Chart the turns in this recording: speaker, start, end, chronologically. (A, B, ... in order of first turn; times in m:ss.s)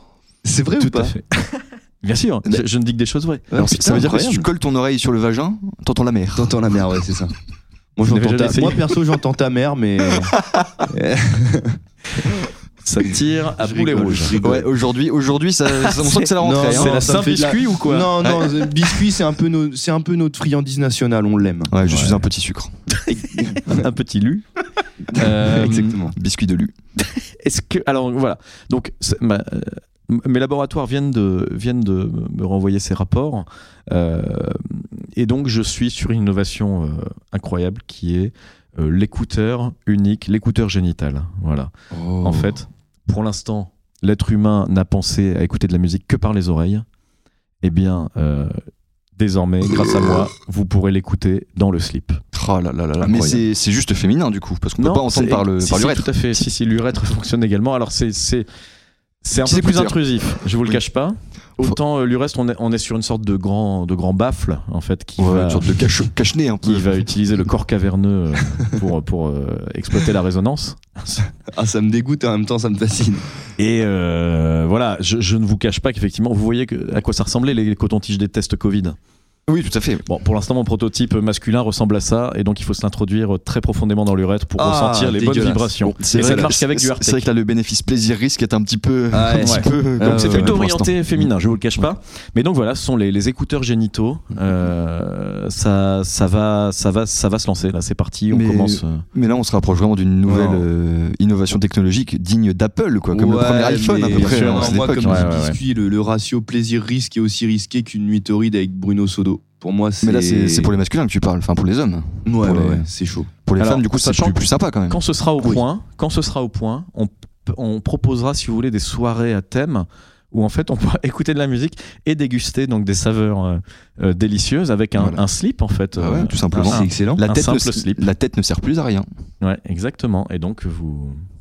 0:00.4-0:01.2 A
0:00.8-0:03.6 B
0:03.5-0:04.5 A
0:03.6-0:06.5 C
0:06.4-0:07.3 A
0:08.0-0:11.8 A
0:08.0-0:08.9 B
0:12.8-0:14.4 B
0:13.6-0:14.7 A
0:14.4-0:17.1 C
0:15.9-0:18.9 B
0:16.4-0:21.8 A
0:21.7-0:22.7 C
0:21.8-0:22.2 B
0:22.9-0:24.4 B
0:23.1-0:23.8 A
0:25.1-0:26.2 A
0:25.1-0:26.0 B
0:26.1-0:26.7 C
0:27.1-0:46.9 B
0:41.9-0:42.5 A
0:47.6-0:48.6 B
0:49.2-0:52.2 B
0:52.3-0:56.4 C
0:53.0-0:53.4 A
0:54.8-0:58.5 B
0:59.2-1:05.8 B
0:59.4-1:00.0 C
1:05.2-1:06.9 C
1:06.6-1:11.3 B
1:11.5-1:13.3 A
1:13.6-1:19.0 B
1:19.5-1:20.0 C
1:20.1-1:27.2 B
1:24.6-1:26.5 A
1:25.8-1:31.3 C
1:29.1-1:30.6 A
1:29.4-1:39.0 B
1:38.3-1:45.3 C
1:40.2-1:40.7 A
1:43.1-1:50.7 A
1:44.1-1:45.6 B
1:50.0-1:52.9 C
1:52.3-1:53.3 A
1:53.5-1:55.0 C
1:53.6-2:08.1 B
2:05.0-2:05.2 C
2:06.0-2:09.1 C
2:06.6-2:07.2 A
2:09.4-2:11.2 B